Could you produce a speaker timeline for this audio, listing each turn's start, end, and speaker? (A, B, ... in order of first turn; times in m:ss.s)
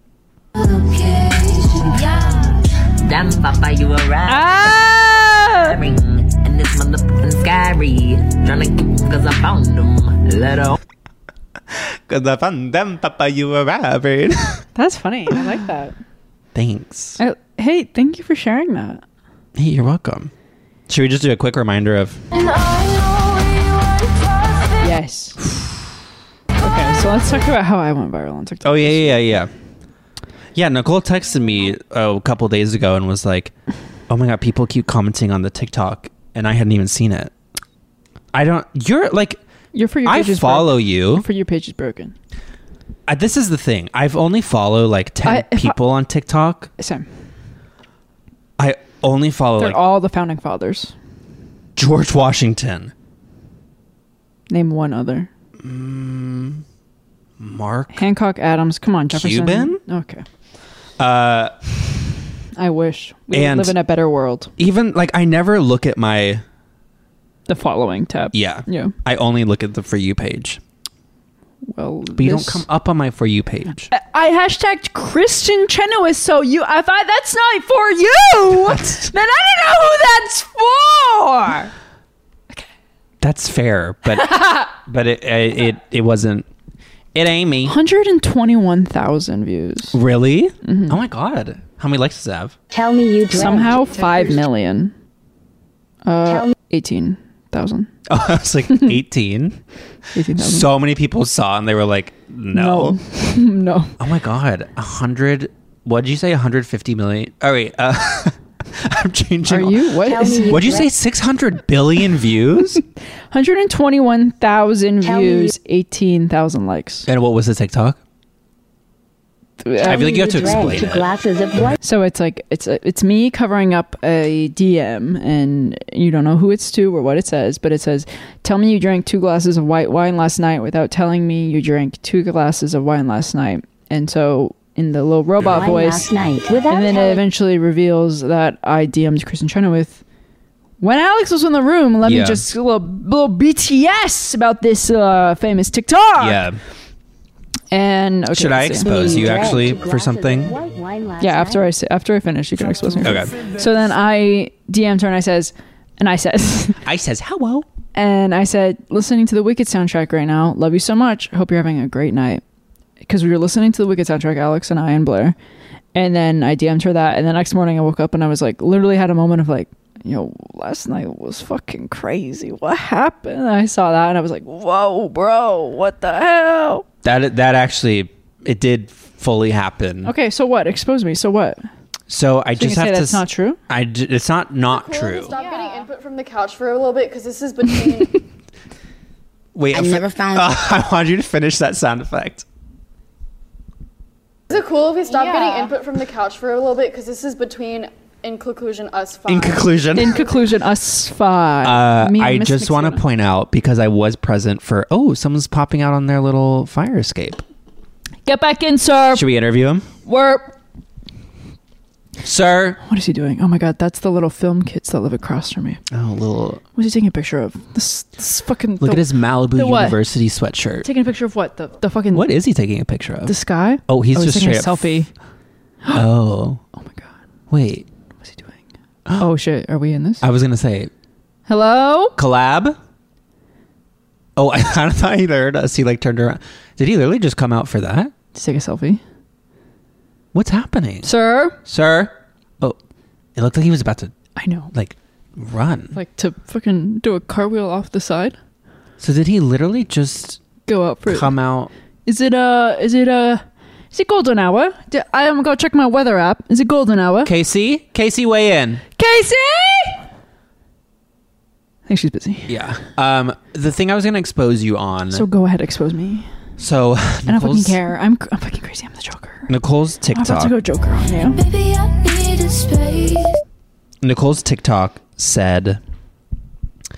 0:01.0-0:01.4 A
0:03.0-0:04.8 B
0:04.3-0:05.8 C
0:05.4-0:10.8 B
0:12.1-0:14.6 D
0:14.8-0:16.0 C
0:16.5-0:17.2 D
0:17.2-0:19.0 C
0:19.6-0:20.3 D
0:20.9-0:22.2 D
0:24.8-0:25.4 C
0:26.6-0:29.4 C
0:28.6-0:29.5 D
0:30.6-0:33.5 D
0:34.1-0:37.3 D
0:38.3-0:39.4 D
0:39.7-0:42.2 C
0:40.0-0:41.2 D
0:43.1-0:46.7 D
0:45.2-0:45.8 C
0:46.8-0:47.1 C
0:48.6-0:49.8 D
0:49.6-0:50.9 C
0:51.8-0:52.9 D
0:54.5-0:55.3 C
0:55.6-0:56.6 D
0:57.4-0:58.0 D
0:57.9-1:00.2 C
0:59.1-0:59.8 D
1:01.0-1:01.6 D
1:02.6-1:04.5 C
1:03.3-1:03.8 D
1:04.6-1:06.4 D
1:07.5-1:08.9 C
1:08.3-1:10.6 D
1:11.7-1:12.7 C
1:12.2-1:13.9 D
1:13.9-1:21.7 C
1:18.6-1:19.1 D
1:23.2-1:26.5 D
1:27.1-1:27.8 D
1:27.6-1:30.0 C
1:29.9-1:32.6 D
1:30.6-1:31.0 C
1:33.3-1:34.9 C
1:36.0-1:37.9 C
1:38.1-1:39.6 D
1:40.1-1:40.7 C
1:40.4-1:43.0 D
1:42.5-1:44.0 C
1:44.0-1:52.8 D
1:49.5-1:50.8 C
1:53.3-1:57.1 C
1:57.1-1:58.0 D
1:59.6-2:00.3 C
1:59.8-2:01.1 D
2:01.8-2:16.2 C
2:15.6-2:16.7 E
2:16.7-2:20.0 C
2:20.8-2:26.4 C
2:22.0-2:22.4 D
2:26.2-2:26.6 D
2:27.7-2:29.5 C
2:28.3-2:30.6 D
2:31.2-2:36.8 C
2:33.0-2:33.3 D
2:36.8-2:37.7 D
2:37.9-2:42.4 C
2:43.0-2:45.4 C
2:46.0-2:56.8 C
2:57.0-3:00.1 D
3:00.0-3:01.7 C
3:02.1-3:05.4 D
3:02.6-3:03.6 C
3:04.7-3:08.2 F
3:09.6-3:12.4 D
3:09.7-3:10.6 E
3:14.5-3:20.4 F
3:19.3-3:20.3 D
3:20.0-3:23.0 C
3:21.6-3:27.4 D
3:28.3-3:29.3 C
3:29.1-3:29.9 D
3:30.1-3:30.5 C
3:32.2-3:32.8 D
3:32.8-3:35.8 C
3:35.9-3:36.6 D
3:36.8-3:40.0 C
3:38.8-3:40.9 D
3:40.8-3:42.3 C
3:42.1-3:43.4 D
3:43.3-3:45.1 C
3:43.9-3:45.0 D
3:45.9-3:46.6 D
3:46.8-3:47.1 C
3:47.5-3:47.8 D
3:48.2-3:48.6 C
3:49.2-3:50.2 C
3:50.2-3:50.9 D
3:51.5-3:52.2 C
3:52.2-3:52.8 D
3:54.4-3:58.1 D
3:58.3-3:59.0 C
4:00.3-4:01.1 D
4:01.0-4:01.6 C
4:01.6-4:02.8 D
4:03.4-4:04.1 D
4:04.4-4:04.7 C
4:04.7-4:06.0 D
4:05.9-4:08.4 C
4:09.0-4:10.4 D
4:10.7-4:11.4 C
4:11.1-4:11.7 D
4:12.1-4:17.3 C
4:17.2-4:18.8 D
4:19.0-4:20.0 C
4:21.9-4:22.6 C
4:22.5-4:25.3 D
4:25.1-4:26.3 C
4:26.6-4:27.8 D
4:27.3-4:29.5 C
4:29.5-4:30.6 D
4:30.1-4:31.4 C
4:31.4-4:33.4 A
4:34.0-4:35.8 D